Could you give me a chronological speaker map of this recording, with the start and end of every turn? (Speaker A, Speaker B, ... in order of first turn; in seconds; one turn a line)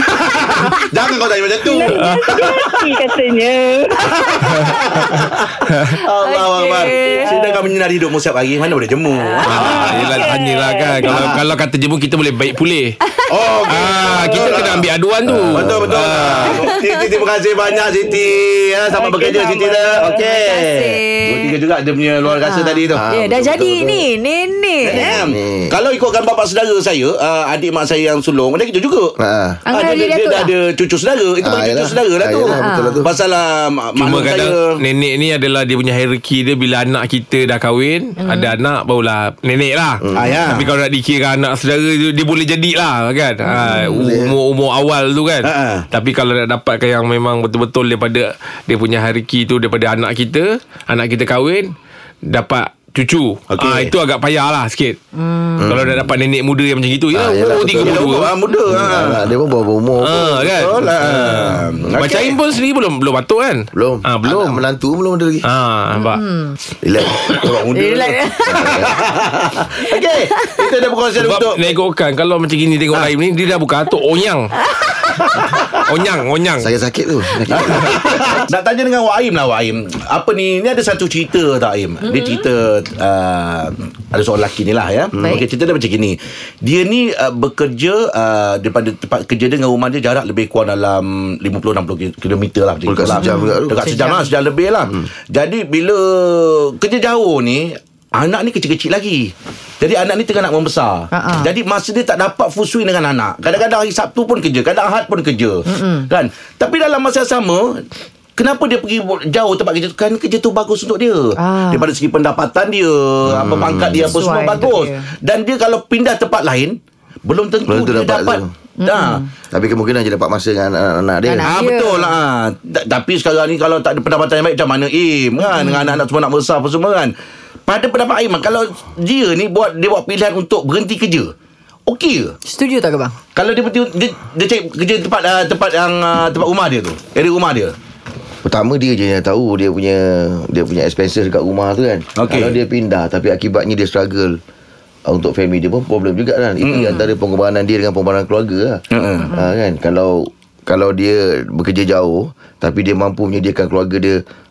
Speaker A: 0.1-2.9
Speaker B: 1.6-4.0
Speaker C: 1.9-2.3
Speaker A: 4.0-10.2
Speaker C: 4.5-6.0
Speaker D: 6.2-7.3
Speaker B: 7.2-7.7
Speaker D: 9.2-9.7
Speaker C: 9.4-12.9
Speaker B: 9.7-11.2
Speaker A: 11.0-11.4
Speaker A: 13.3-14.9
Speaker C: 13.7-16.6
Speaker E: 15.2-15.9
Speaker A: 15.5-23.0
Speaker D: 16.6-17.1
Speaker B: 18.9-20.2
Speaker D: 19.7-21.6
Speaker D: 22.3-25.2
Speaker E: 22.9-24.1
Speaker A: 24.8-29.1
Speaker E: 24.9-25.7
Speaker E: 29.2-29.6
Speaker D: 29.6-30.5
Speaker A: 29.7-34.8
Speaker E: 31.4-33.1
Speaker D: 32.5-33.1
Speaker C: 34.0-51.7
Speaker D: 38.2-38.5
Speaker E: 40.0-40.4
Speaker A: 40.1-40.7
Speaker E: 43.6-44.3
Speaker A: 45.4-45.9
Speaker C: 52.3-55.0
Speaker A: 53.5-53.9
Speaker D: 55.2-55.6
Speaker E: 55.6-56.1
Speaker C: 55.6-58.3
Speaker E: 57.1-58.0
Speaker A: 57.7-59.3
Speaker E: 58.7-60.5
Speaker C: 60.0-64.6
Speaker A: 60.5-62.4
Speaker E: 63.7-65.4
Speaker C: 65.4-66.2
Speaker D: 66.0-66.5
Speaker E: 66.8-67.8
Speaker A: 67.5-71.7
Speaker D: 67.7-68.7
Speaker E: 68.5-68.9
Speaker C: 71.2-74.5
Speaker A: 75.3-75.8
Speaker C: 75.8-76.7
Speaker E: 76.6-78.2
Speaker A: 77.5-107.8
Speaker D: 82.1-82.4
Speaker E: 92.8-93.9
Speaker D: 93.1-94.3
Speaker D: 101.1-101.5
Speaker D: 105.7-106.1
Speaker A: 108.4-119.2
Speaker D: 111.3-111.9
Speaker E: 113.2-114.2
Speaker D: 114.1-115.1
Speaker E: 117.7-118.5
Speaker D: 118.8-119.3
Speaker E: 119.5-121.5
Speaker D: 121.3-122.1
Speaker A: 121.5-127.1
Speaker D: 125.5-125.9
Speaker A: 127.7-131.3
Speaker A: 131.9-132.3
Speaker D: 132.4-133.2
Speaker A: 133.3-137.7
Speaker E: 138.4-144.4
Speaker A: 142.2-142.6
Speaker E: 145.1-154.2
Speaker A: 146.6-147.0
Speaker A: 148.9-149.3
Speaker D: 149.2-149.5